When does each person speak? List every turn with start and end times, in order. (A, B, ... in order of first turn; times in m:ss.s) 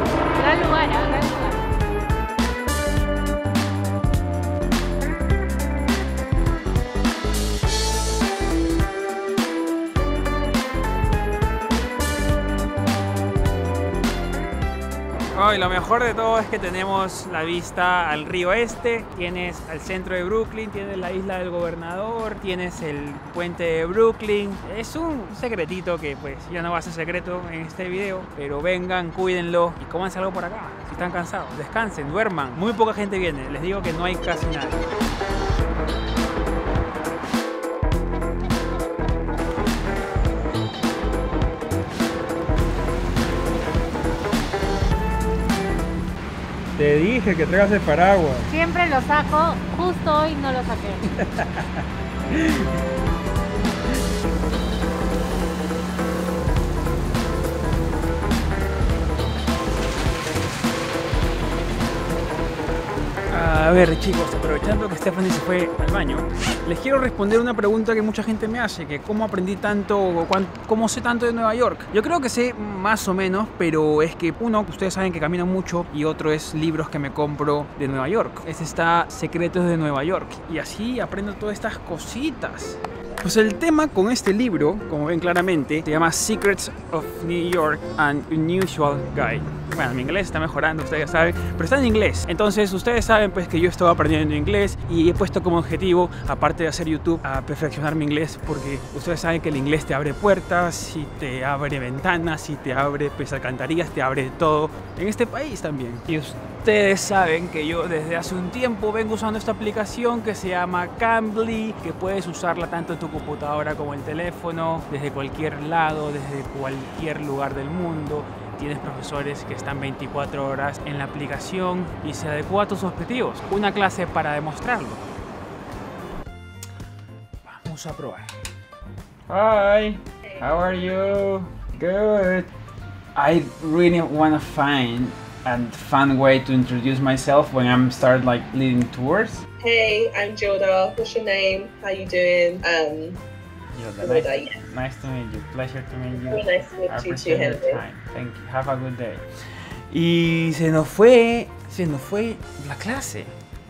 0:00.3-0:01.8 A
0:15.3-0:34.8 B
0:46.8-0:48.5 B
0:48.5-0:51.1 A
0:51.1-0:52.7 B
1:03.3-2:05.0 B
2:07.4-2:08.4 B
2:09.3-2:12.5 B
2:10.2-2:11.0 C
2:13.2-2:19.4 B
2:19.6-2:23.2 C
2:23.7-2:33.3 B
2:24.0-2:24.6 C
2:26.2-2:27.8 C